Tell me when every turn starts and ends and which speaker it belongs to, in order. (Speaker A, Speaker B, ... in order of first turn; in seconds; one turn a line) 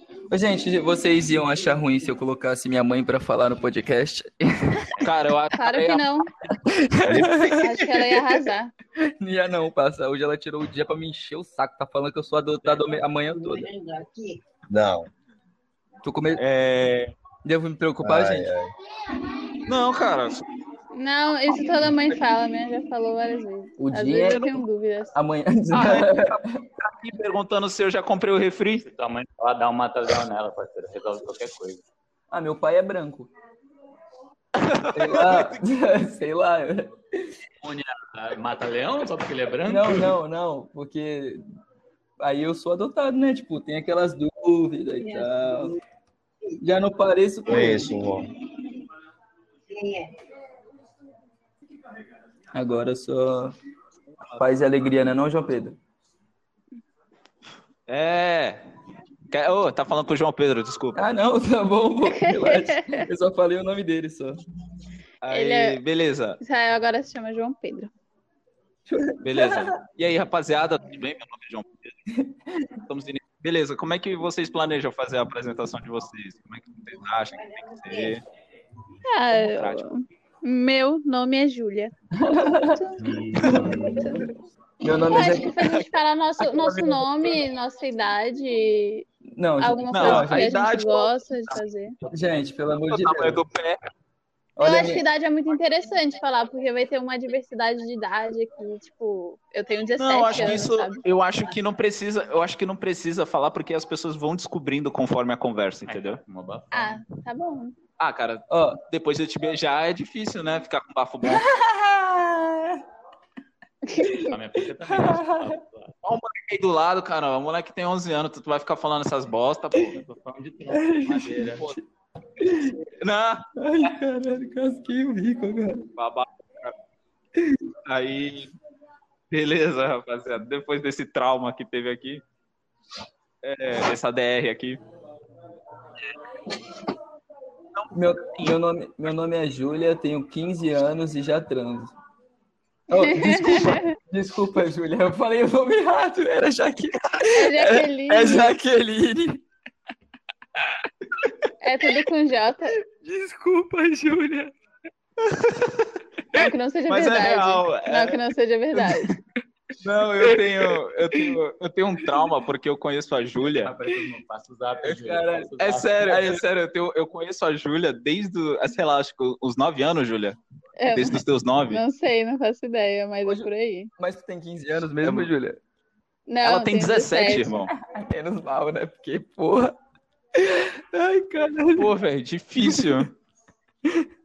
Speaker A: 0.3-5.0
Speaker B: 5.0-6.0
Speaker C: 5.5-6.3
Speaker A: 6.5-7.8
Speaker D: 7.0-8.2
Speaker C: 7.5-8.7
Speaker A: 9.0-13.8
Speaker D: 14.7-15.1
Speaker A: 16.0-16.4
Speaker B: 16.4-17.1
Speaker A: 17.4-18.5
Speaker D: 18.0-18.7
Speaker B: 19.6-20.4
Speaker C: 20.9-25.1
Speaker A: 23.8-24.6
Speaker A: 25.1-26.6
Speaker B: 25.7-28.8
Speaker E: 28.8-31.8
Speaker A: 32.3-33.3
Speaker B: 34.5-35.6
Speaker A: 34.9-37.3
Speaker E: 37.6-40.2
Speaker A: 39.6-41.4
Speaker A: 42.2-45.8
Speaker A: 46.6-48.0
Speaker D: 47.5-48.3
Speaker A: 52.5-53.5
Speaker A: 54.4-55.8
Speaker B: 57.9-58.6
Speaker B: 59.3-61.0
Speaker A: 60.9-64.4
Speaker C: 62.1-63.0
Speaker B: 65.2-66.4
Speaker C: 65.3-65.8
Speaker C: 66.4-67.9
Speaker A: 68.9-69.7
Speaker B: 69.2-71.9
Speaker A: 72.1-72.8
Speaker B: 72.9-78.2
Speaker C: 79.1-81.9
Speaker B: 79.3-79.8
Speaker A: 82.1-84.0
Speaker C: 82.7-83.0
Speaker E: 83.0-83.6
Speaker B: 83.3-84.0
Speaker C: 84.0-84.3
Speaker A: 84.8-85.6
Speaker C: 85.1-89.0
Speaker B: 86.4-87.0
Speaker A: 89.2-90.5
Speaker C: 89.6-92.0
Speaker B: 89.9-91.5
Speaker A: 92.1-93.4
Speaker B: 92.9-93.8
Speaker A: 94.6-95.0
Speaker C: 94.6-101.0
Speaker B: 100.0-106.2
Speaker E: 105.8-107.0
Speaker C: 106.7-107.7
Speaker B: 108.0-111.5
Speaker A: 108.5-108.8
Speaker A: 111.2-112.8
Speaker C: 113.8-114.3
Speaker E: 114.1-115.9
Speaker A: 114.8-115.6
Speaker B: 116.0-120.0
Speaker E: 120.0-121.7
Speaker A: 120.7-121.8
Speaker A: 122.4-122.8
Speaker B: 122.9-123.5
Speaker A: 123.5-125.9
Speaker B: 126.0-126.7
Speaker A: 127.4-127.6
Speaker B: 127.8-128.5
Speaker B: 129.3-132.2
Speaker B: 133.4-134.8
Speaker B: 137.8-138.5
Speaker A: 137.9-141.9
Speaker A: 142.9-149.4
Speaker C: 142.9-143.9
Speaker C: 147.3-148.5
Speaker C: 151.6-152.7
Speaker A: 152.8-154.5
Speaker B: 155.2-155.9
Speaker C: 156.3-159.1
Speaker B: 156.9-158.2
Speaker A: 158.7-159.2
Speaker B: 159.8-163.7
Speaker A: 160.0-161.4
Speaker E: 163.6-166.3
Speaker A: 164.8-166.4
Speaker B: 165.6-171.8
Speaker C: 170.8-173.9
Speaker A: 173.2-175.6
Speaker B: 175.0-175.3
Speaker C: 176.3-177.5
Speaker B: 176.4-177.7
Speaker A: 177.7-179.8
Speaker A: 180.3-181.9
Speaker B: 181.7-183.1
Speaker A: 182.6-183.0